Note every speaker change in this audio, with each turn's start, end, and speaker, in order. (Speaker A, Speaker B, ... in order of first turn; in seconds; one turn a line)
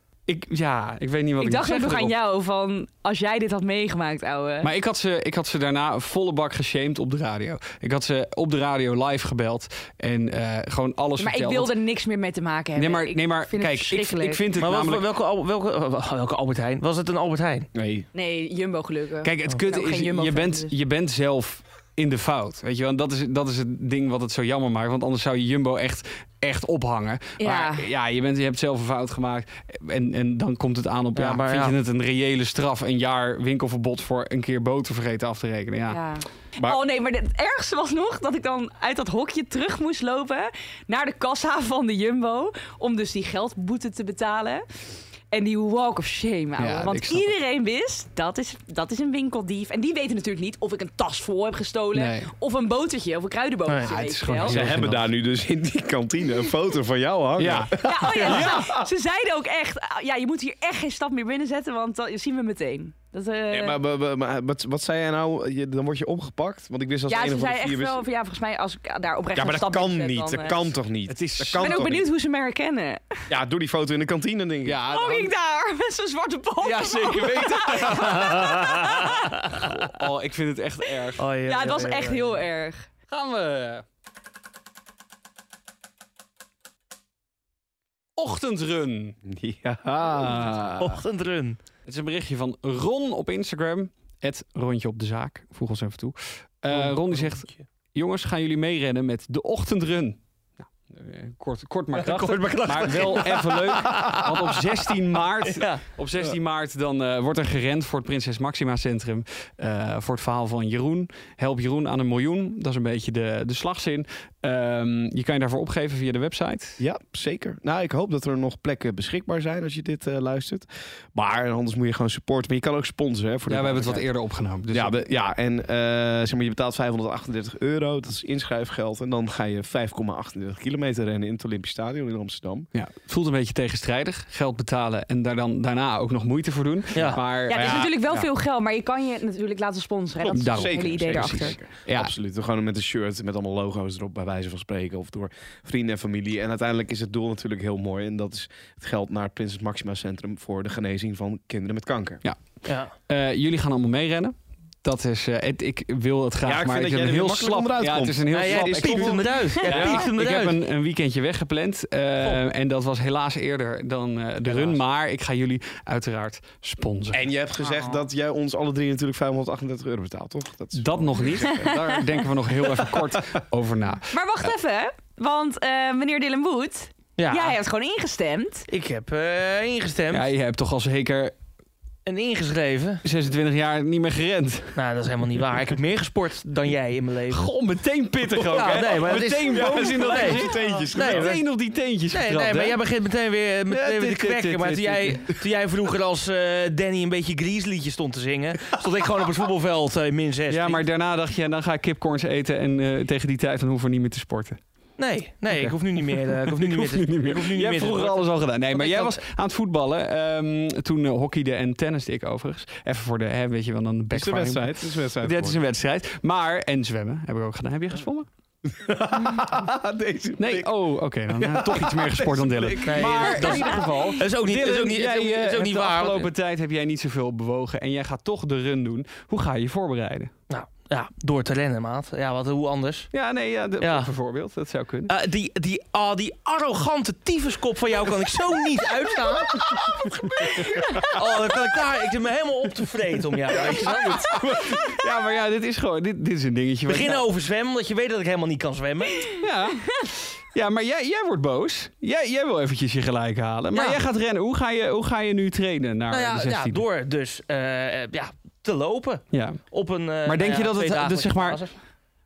Speaker A: 0.3-2.1
Speaker B: 1.4-4.7
Speaker A: 4.6-11.7
Speaker B: 11.2-14.4
Speaker A: 12.8-15.0
Speaker C: 14.6-17.7
Speaker D: 17.7-18.1
Speaker B: 18.1-20.7
Speaker A: 19.2-36.0
Speaker B: 27.4-27.9
Speaker C: 31.1-31.8
Speaker B: 35.9-44.6
Speaker B: 45.3-54.6
Speaker A: 46.6-47.3
Speaker A: 51.9-52.3
Speaker A: 53.8-55.1
Speaker D: 54.5-58.9
Speaker A: 57.4-58.5
Speaker B: 57.8-63.8
Speaker D: 63.5-68.0
Speaker B: 67.1-70.7
Speaker D: 69.3-72.0
Speaker A: 71.1-72.0
Speaker B: 71.5-73.3
Speaker D: 73.3-74.8
Speaker A: 74.6-75.3
Speaker B: 74.9-79.3
Speaker A: 76.6-78.7
Speaker C: 77.9-79.7
Speaker A: 79.5-81.2
Speaker C: 81.2-82.3
Speaker B: 81.5-82.9
Speaker A: 83.1-83.8
Speaker A: 88.2-89.2
Speaker D: 89.2-91.0
Speaker C: 90.8-91.6
Speaker A: 91.8-116.8
Speaker C: 96.7-97.7
Speaker C: 101.9-104.7
Speaker C: 105.4-105.8
Speaker D: 116.8-124.1
Speaker A: 123.5-125.0
Speaker D: 124.7-132.7
Speaker A: 132.7-137.9
Speaker C: 136.9-137.2
Speaker D: 137.1-138.3
Speaker B: 137.5-141.6
Speaker D: 140.2-152.2
Speaker A: 140.3-142.1
Speaker C: 152.6-152.9
Speaker A: 153.0-167.2
Speaker D: 156.4-160.1
Speaker C: 158.3-160.6
Speaker C: 164.4-164.8
Speaker D: 167.1-171.9
Speaker B: 167.6-168.0
Speaker A: 170.8-174.1
Speaker B: 174.1-178.7
Speaker C: 177.2-177.6
Speaker C: 178.7-180.3
Speaker A: 180.1-181.3
Speaker C: 182.1-183.0
Speaker A: 183.0-184.7
Speaker C: 184.8-187.5
Speaker A: 187.3-192.8
Speaker D: 188.2-191.4
Speaker C: 188.5-191.4
Speaker C: 192.1-200.8
Speaker A: 193.7-195.2
Speaker A: 200.5-204.6
Speaker C: 205.0-209.2
Speaker A: 205.5-218.3
Speaker D: 214.1-215.6
Speaker D: 218.7-220.8
Speaker A: 220.4-230.3
Speaker D: 221.3-223.7
Speaker C: 222.8-226.3
Speaker B: 223.2-224.2
Speaker C: 230.5-233.1
Speaker A: 233.1-235.1
Speaker C: 233.8-234.1
Speaker C: 235.1-239.9
Speaker D: 239.9-241.1
Speaker B: 240.4-241.1
Speaker C: 241.1-244.4
Speaker D: 243.5-244.7
Speaker A: 244.5-247.2
Speaker C: 246.9-249.3
Speaker A: 249.4-256.8
Speaker B: 253.7-254.0
Speaker C: 256.1-261.7
Speaker A: 259.3-259.6
Speaker A: 260.2-261.6